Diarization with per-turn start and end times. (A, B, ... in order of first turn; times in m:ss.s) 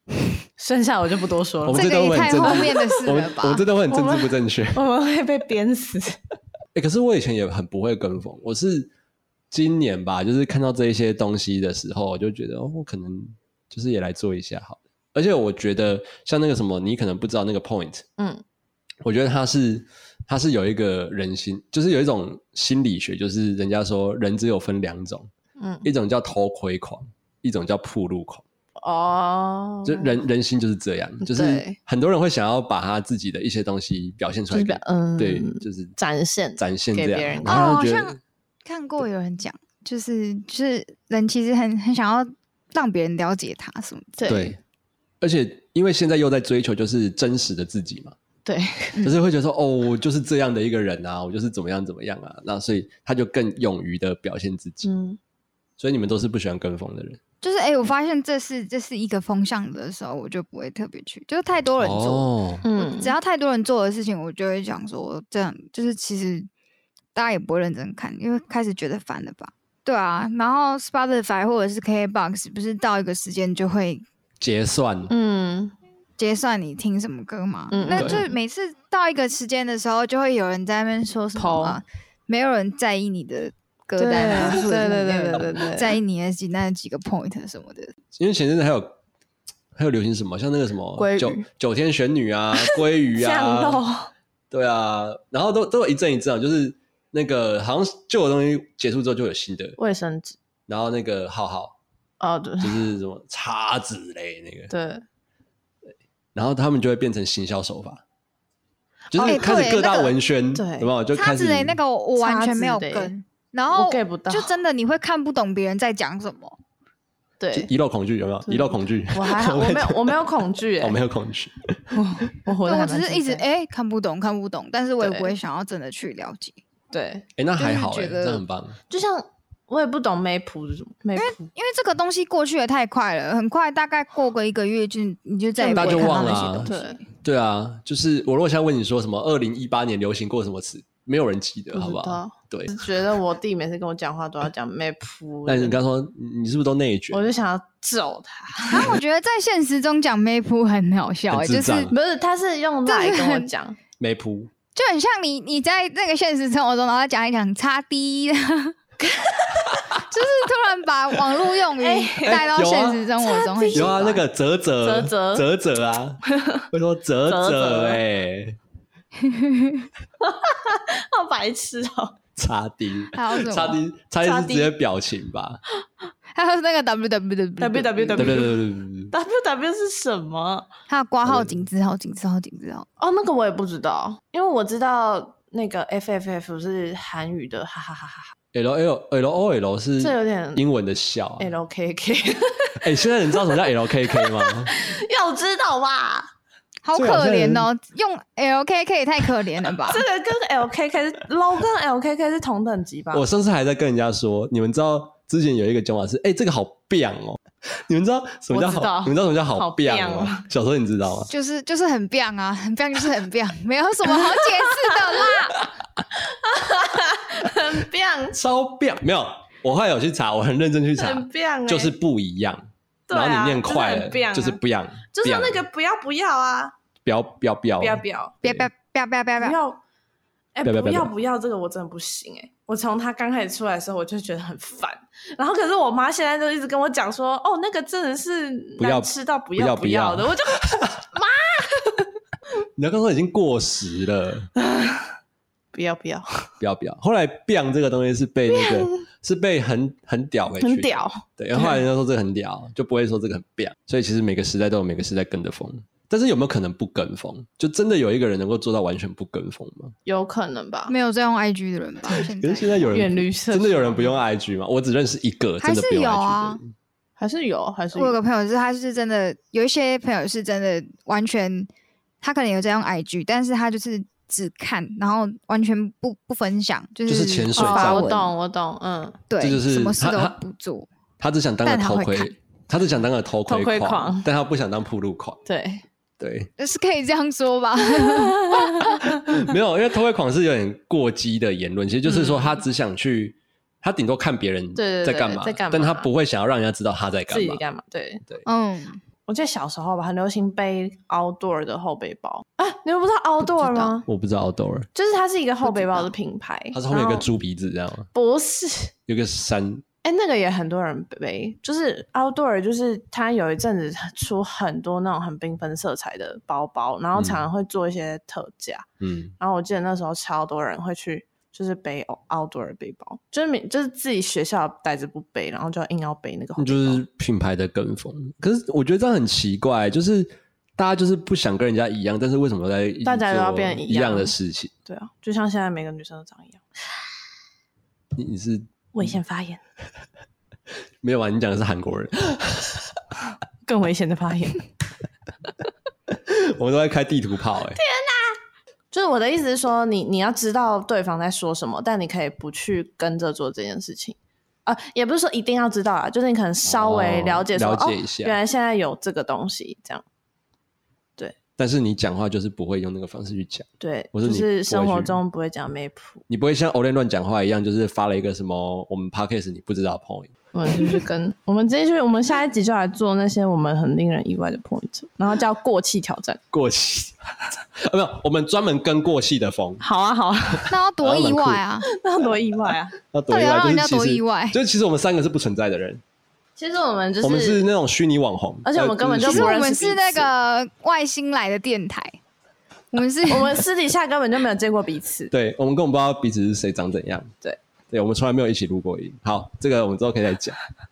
0:00.6-0:03.0 A
0:01.6-0:04.8 B
0:01.7-0:03.6 C
0:03.9-0:06.2 A
0:06.7-0:08.9 B
0:09.5-0:18.0 B
0:19.0-0:25.3 B
0:25.6-0:25.9 A
0:25.8-0:28.4 B
0:28.8-0:30.2 A
0:29.8-0:36.0 B
0:31.2-0:31.8 A
0:34.5-0:37.8 A
0:36.6-0:38.2 B
0:37.4-0:44.3 C
0:44.2-0:44.6 A
0:44.3-0:44.6 B
0:45.2-0:48.2 B
0:48.4-0:49.1 A
0:49.0-0:54.9 B
0:54.8-0:55.2 A
0:55.8-0:57.2 B
0:57.4-1:06.5 C
1:01.8-1:02.6 B
1:02.6-1:03.1 A
1:07.1-1:14.0 C
1:14.4-1:15.1 B
1:15.1-1:15.7 A
1:16.2-1:27.9 C
1:17.7-1:18.3 A
1:17.9-1:18.2 B
1:21.4-1:21.8 A
1:24.0-1:26.0 A
1:28.1-1:29.0 B
1:29.7-1:33.8 B
1:31.0-1:31.4 A
1:32.6-1:34.1 A
1:34.5-1:39.8 B
1:39.8-1:40.4 A
1:40.7-1:41.7 B
1:42.2-1:42.8 A
1:42.6-1:44.7 B
1:44.7-1:45.0 A
1:46.3-1:48.0 B
1:49.1-1:49.7 A
1:49.1-1:51.8 B
1:49.2-1:50.1 C
1:50.5-1:50.9 A
1:51.1-1:56.6 C
1:52.2-1:53.1 A
1:53.7-1:54.5 A
1:57.4-1:57.7 A
1:57.5-2:00.3 B
1:58.4-2:01.0 A
2:00.8-2:01.9 B
2:01.9-2:03.4 A
2:02.6-2:06.6 C
2:05.0-2:05.3 A
2:06.9-2:07.2 A
2:07.4-2:08.8 B
2:07.6-2:08.4 C
2:08.9-2:11.5 A
2:11.2-2:17.0 C
2:15.6-2:17.0 A
2:15.7-2:16.7 B
2:17.2-2:22.8 B
2:21.7-2:25.8 A
2:25.5-2:27.2 B
2:27.1-2:29.0 A
2:28.7-2:31.9 C
2:31.3-2:31.9 B
2:31.9-2:33.8 A
2:32.8-2:33.5 C
2:34.0-2:34.5 B
2:34.7-2:38.7 C
2:39.0-2:39.6 A
2:40.0-2:44.2 C
2:41.8-2:42.5 A
2:42.3-2:43.0 B
2:43.2-2:44.0 A
2:43.7-2:48.6 B
2:44.8-2:45.5 A
2:46.3-2:46.6 A
2:47.3-2:48.0 A
2:49.2-2:49.9 C
2:50.2-2:52.2 A
2:52.4-2:55.6 B
2:53.1-2:53.8 C
2:54.2-2:54.7 A
2:56.3-2:58.5 C
2:57.6-2:58.6 A
2:58.2-2:59.1 B
2:59.1-3:00.7 A
3:00.9-3:02.8 C
3:01.2-3:01.6 B
3:03.0-3:08.3 A
3:08.5-3:11.5 B
3:10.0-3:10.6 A
3:11.4-3:16.3 A
3:12.8-3:14.7 B
3:16.8-3:20.0 C
3:16.9-3:17.7 B
3:19.9-3:23.2 A
3:23.1-3:31.3 B
3:28.5-3:30.4 A
3:31.3-3:35.5 C
3:34.2-3:35.6 A
3:36.1-3:38.4 A
3:38.3-3:45.6 B
3:41.0-3:41.9 A
3:43.1-3:44.6 A
3:45.1-3:46.8 A
3:47.0-3:48.7 B
3:47.8-3:48.4 A
3:48.4-3:49.6 C
3:49.4-3:49.8 A
3:50.5-4:02.1 A
3:50.6-3:51.1 B
3:58.8-4:00.9 B
4:02.8-4:04.5 B
4:04.6-4:05.1 A
4:05.7-4:06.5 A
4:06.6-4:19.9 B
4:08.5-4:09.0 A
4:10.6-4:11.8 A
4:20.0-4:20.9 A
4:20.9-4:22.9 C
4:22.1-4:26.7 B
4:22.9-4:24.2 A
4:25.6-4:26.6 C
4:27.2-4:28.2 A
4:27.9-4:31.7 C
4:32.2-4:38.3 C
4:37.0-4:38.1 B
4:37.6-4:39.2 A
4:39.3-4:40.9 C
4:39.4-4:40.4 B
4:41.2-4:45.4 B
4:41.6-4:42.4 C
4:43.5-4:44.3 A
4:45.5-4:45.8 A
4:46.2-4:46.5 B
4:46.6-4:48.9 C
4:47.9-4:49.3 A
4:49.0-4:57.6 B
4:52.0-4:52.5 A
4:54.8-4:56.1 A
4:57.3-4:58.2 A
4:58.4-4:59.0 C
4:59.3-5:04.1 A
5:03.4-5:03.9 C
5:04.0-5:04.9 B
5:04.9-5:07.3 A
5:05.6-5:06.1 C
5:06.7-5:08.1 B
5:08.1-5:08.9 A
5:09.1-5:09.8 B
5:10.0-5:18.8 A
5:17.2-5:17.4 B
5:19.0-5:19.3 B
5:19.4-5:27.0 A
5:26.6-5:34.7 B
5:33.0-5:34.3 A
5:34.8-5:37.0 A
5:38.1-5:39.1 B
5:38.9-5:39.6 A
5:41.0-5:42.8 B
5:43.6-5:44.7 A
5:46.1-5:47.8 B
5:47.8-5:48.4 A
5:48.9-6:00.0 A
5:56.6-5:58.4 B
6:01.6-6:05.2 B
6:03.8-6:06.2 A
6:06.3-6:10.9 B
6:10.5-6:16.4 A
6:16.5-6:17.1 B
6:17.8-6:19.8 B
6:19.8-6:20.7 A
6:20.6-6:21.6 B
6:20.7-6:21.9 C
6:21.8-6:23.0 A
6:23.1-6:26.0 B
6:23.3-6:24.6 C
6:26.6-6:27.6 A
6:27.2-6:29.5 B
6:28.6-6:30.3 A
6:29.2-6:32.2 C
6:32.9-6:33.6 C
6:33.3-6:35.3 A
6:35.3-6:37.3 B
6:37.9-6:40.6 B